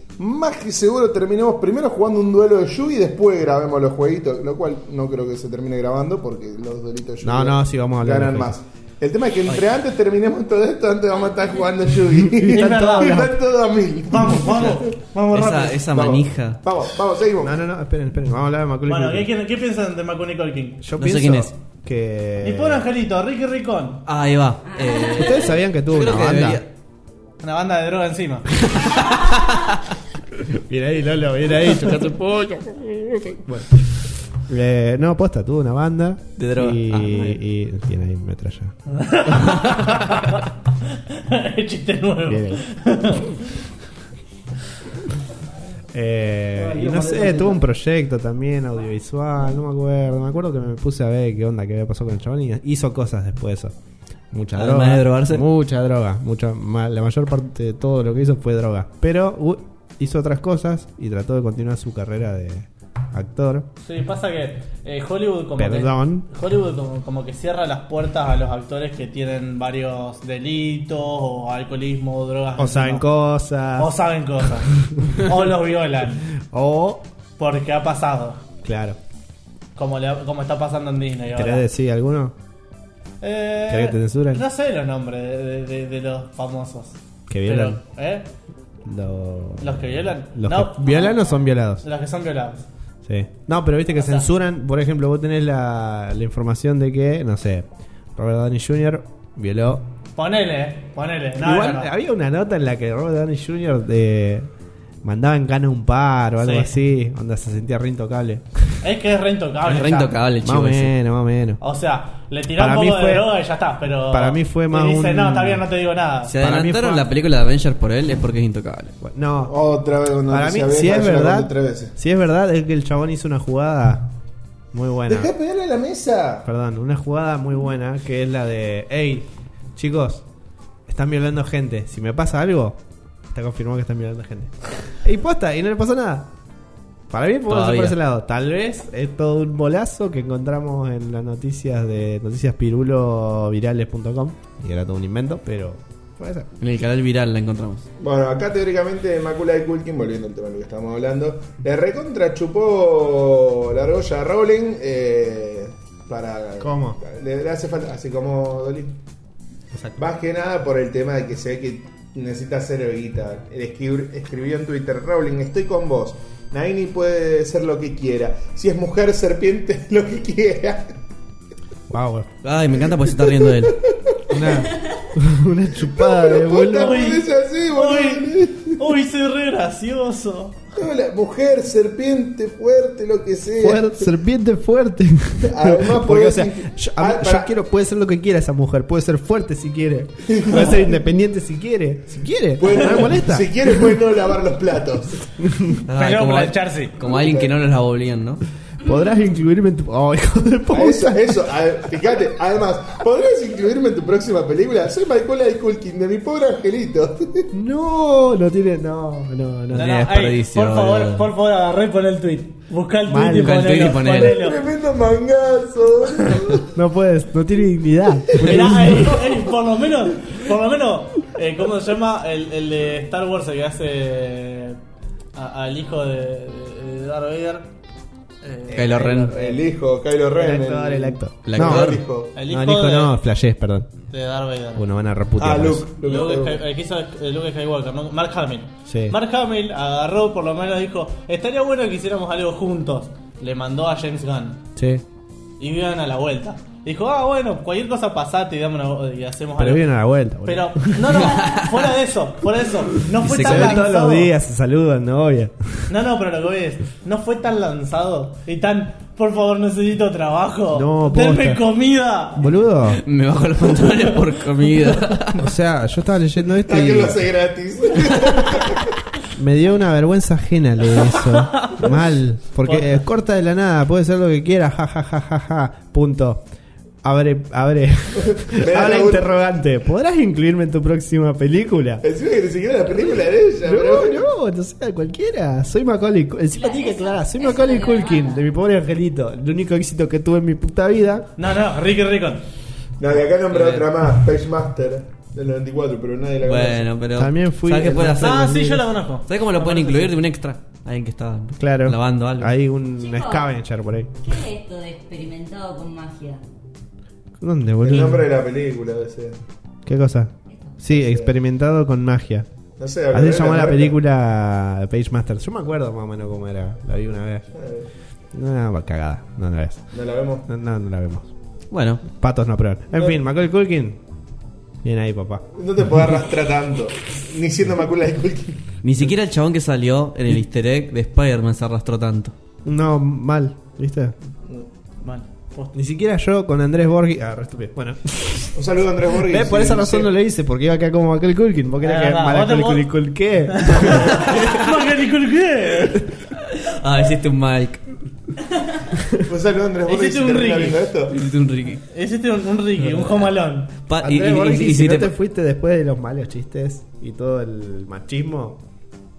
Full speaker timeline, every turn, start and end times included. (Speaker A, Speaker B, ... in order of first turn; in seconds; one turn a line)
Speaker A: 0.2-14.8
Speaker B: 7.2-8.6
Speaker B: 12.1-13.3
Speaker C: 12.5-13.3
Speaker C: 14.1-15.8
Speaker D: 15.3-16.6
Speaker A: 15.9-17.6
Speaker B: 17.4-19.3
Speaker C: 18.9-20.8
Speaker B: 20.8-22.9
Speaker D: 21.0-21.5
Speaker C: 22.4-24.0
Speaker D: 24.1-26.6
Speaker E: 24.7-25.5
Speaker B: 25.1-26.6
Speaker C: 27.4-28.5
Speaker D: 28.8-29.8
Speaker B: 30.4-38.8
Speaker D: 31.7-32.6
Speaker D: 36.4-37.4
Speaker C: 38.9-43.4
Speaker D: 39.6-40.0
Speaker B: 42.3-42.6
Speaker B: 45.9-53.7
Speaker B: 54.3-63.7
Speaker D: 54.5-55.4
Speaker C: 63.8-73.1
Speaker B: 65.6-66.3
Speaker B: 72.6-73.9
Speaker C: 73.8-76.3
Speaker B: 76.4-77.0
Speaker C: 77.4-78.4
Speaker B: 78.6-79.0
Speaker C: 79.8-81.7
Speaker B: 81.3-82.3
Speaker C: 83.2-88.3
Speaker B: 83.7-84.4
Speaker B: 87.3-87.8
Speaker B: 88.8-91.8
Speaker C: 89.6-92.7
Speaker B: 93.0-99.8
Speaker C: 93.9-94.3
Speaker C: 100.2-101.9
Speaker B: 101.4-104.5
Speaker B: 105.0-108.8
Speaker C: 106.4-106.7
Speaker C: 108.8-110.2
Speaker D: 109.6-110.9
Speaker B: 110.4-111.6
Speaker C: 111.6-116.3
Speaker B: 112.5-113.3
Speaker B: 114.1-115.6
Speaker D: 116.3-118.9
Speaker B: 116.4-117.1
Speaker B: 119.0-119.5
Speaker A: 119.4-121.9
Speaker B: 120.3-124.1
Speaker B: 124.7-125.3
Speaker A: 125.0-126.5
Speaker B: 126.4-130.2
Speaker B: 130.9-132.8
Speaker B: 133.3-136.3
Speaker B: 137.1-146.5
Speaker D: 137.5-138.0
Speaker D: 146.6-147.8
Speaker A: 148.0-159.0
Speaker B: 156.6-157.0
Speaker B: 159.7-160.0
Speaker A: 160.0-170.9
Speaker B: 171.9-172.4
Speaker D: 172.4-173.8
Speaker A: 173.1-174.6
Speaker B: 174.3-177.1
Speaker A: 175.8-178.8
Speaker C: 176.7-180.6
Speaker A: 180.8-184.1
Speaker B: 183.6-194.0
Speaker A: 185.4-187.5
Speaker A: 190.3-191.0
Speaker A: 192.6-195.3
Speaker B: 195.4-195.8
Speaker D: 195.8-198.4
Speaker C: 195.9-196.9
Speaker A: 197.0-197.5
Speaker B: 198.8-201.5
Speaker A: 200.7-207.5
Speaker B: 207.5-210.2
Speaker D: 209.7-211.3
Speaker C: 209.7-214.6
Speaker B: 213.1-213.7
Speaker D: 213.4-214.4
Speaker A: 214.2-216.7
Speaker B: 216.7-219.2
Speaker C: 218.4-224.8
Speaker C: 225.3-227.7
Speaker C: 228.4-229.3
Speaker A: 228.7-232.3
Speaker D: 228.7-229.4
Speaker B: 230.3-233.9
Speaker D: 231.4-232.0
Speaker C: 232.3-233.2
Speaker C: 234.1-234.8
Speaker B: 234.7-235.9
Speaker A: 235.4-236.6
Speaker C: 236.0-244.6
Speaker B: 238.9-239.2
Speaker B: 244.8-245.0
Speaker C: 245.6-254.3
Speaker B: 249.6-251.3
Speaker D: 251.3-251.6
Speaker B: 253.1-255.9
Speaker D: 253.3-253.7
Speaker C: 255.9-262.6
Speaker B: 260.7-261.6
Speaker B: 262.4-263.0
Speaker D: 262.9-265.4
Speaker B: 265.3-267.3
Speaker A: 266.5-268.9
Speaker B: 269.3-276.4
Speaker C: 271.5-271.8
Speaker C: 272.6-272.9
Speaker B: 277.0-282.0
Speaker A: 278.3-279.3
Speaker A: 282.0-284.2
Speaker B: 283.6-291.3
Speaker E: 286.5-288.4
Speaker C: 291.4-292.4
Speaker A: 293.0-296.9
Speaker D: 293.5-293.9
Speaker D: 296.4-298.6
Speaker B: 297.1-298.8
Speaker C: 298.1-300.2
Speaker D: 299.3-302.5
Speaker B: 301.6-304.1
Speaker E: 303.0-303.5
Speaker E: 304.2-306.4
Speaker B: 307.4-308.3
Speaker A: 307.8-309.4
Speaker B: 309.9-312.4
Speaker E: 310.5-310.8
Speaker A: 310.9-311.3
Speaker A: 312.8-314.0
Speaker B: 313.1-317.5
Speaker A: 317.5-317.9
Speaker B: 318.3-319.9
Speaker A: 319.9-320.4
Speaker B: 320.4-321.3
Speaker D: 321.7-322.1
Speaker B: 322.1-324.0
Speaker B: 324.8-325.4
Speaker A: 325.6-329.0
Speaker D: 328.8-332.3
Speaker B: 332.6-334.1
Speaker C: 335.0-335.8
Speaker B: 335.7-344.2
Speaker A: 338.5-340.1
Speaker C: 341.8-343.0
Speaker C: 343.5-346.1
Speaker D: 344.2-344.6
Speaker D: 346.5-348.0
Speaker A: 349.2-351.2
Speaker C: 349.9-350.9
Speaker D: 351.1-351.8
Speaker C: 351.9-353.7
Speaker D: 352.9-353.3
Speaker D: 353.9-355.1
Speaker B: 354.0-358.6